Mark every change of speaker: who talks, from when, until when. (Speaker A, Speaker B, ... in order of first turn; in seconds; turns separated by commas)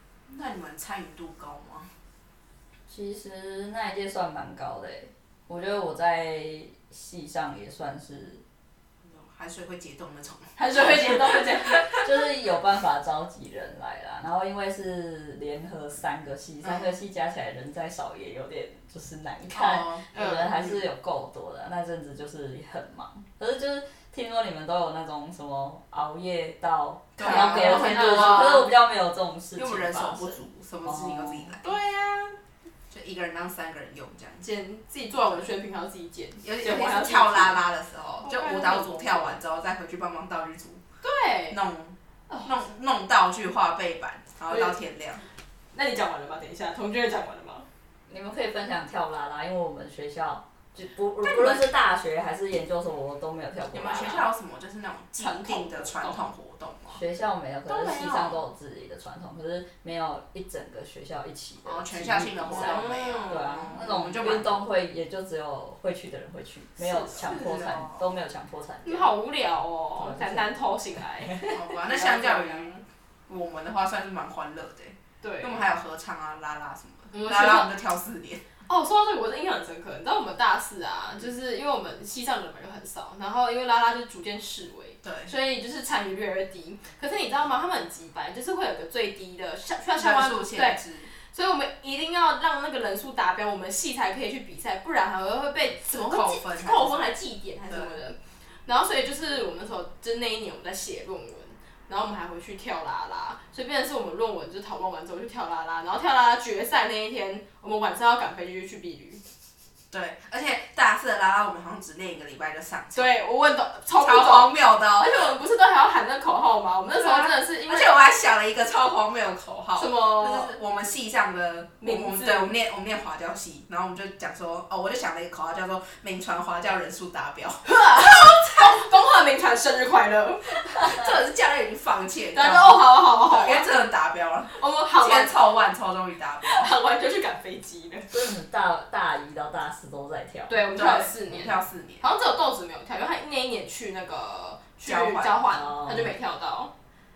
Speaker A: 0.3-1.9, Speaker B: 2.9-8.4, Speaker A: 9.0-11.9, Speaker C: 10.6-12.0, Speaker B: 11.9-31.6, Speaker A: 16.6-16.9, Speaker A: 19.5-20.8, Speaker C: 20.1-20.5, Speaker A: 27.1-28.7, Speaker C: 27.2-28.7, Speaker A: 29.6-31.8, Speaker C: 31.6-32.4, Speaker A: 32.9-34.4, Speaker C: 34.4-37.6, Speaker A: 36.4-40.8, Speaker C: 38.2-39.4, Speaker C: 41.0-41.6, Speaker A: 41.5-45.2, Speaker C: 44.5-44.8, Speaker C: 45.7-47.7, Speaker B: 48.1-54.2, Speaker A: 51.2-51.7, Speaker A: 53.7-57.0, Speaker C: 53.9-54.2, Speaker C: 55.2-56.3, Speaker B: 56.9-69.1, Speaker A: 57.7-58.4, Speaker A: 61.6-64.6, Speaker C: 62.5-63.7, Speaker A: 66.8-68.0, Speaker C: 68.8-72.8, Speaker B: 70.0-70.5, Speaker A: 71.5-78.4, Speaker C: 75.2-75.7, Speaker C: 77.1-77.7, Speaker C: 78.7-109.2, Speaker A: 85.0-85.3, Speaker A: 90.0-91.1, Speaker A: 95.9-97.1, Speaker A: 97.7-98.0, Speaker A: 109.9-113.1, Speaker C: 112.9-118.0, Speaker A: 113.9-115.3, Speaker A: 116.9-128.1, Speaker C: 119.8-120.6, Speaker C: 121.8-122.5, Speaker C: 127.6-131.1, Speaker A: 130.8-136.7, Speaker C: 132.3-133.7, Speaker C: 134.5-135.4, Speaker C: 136.4-138.2, Speaker B: 138.1-140.7, Speaker C: 140.5-146.7, Speaker A: 140.7-142.1, Speaker A: 144.8-145.4, Speaker B: 145.4-146.1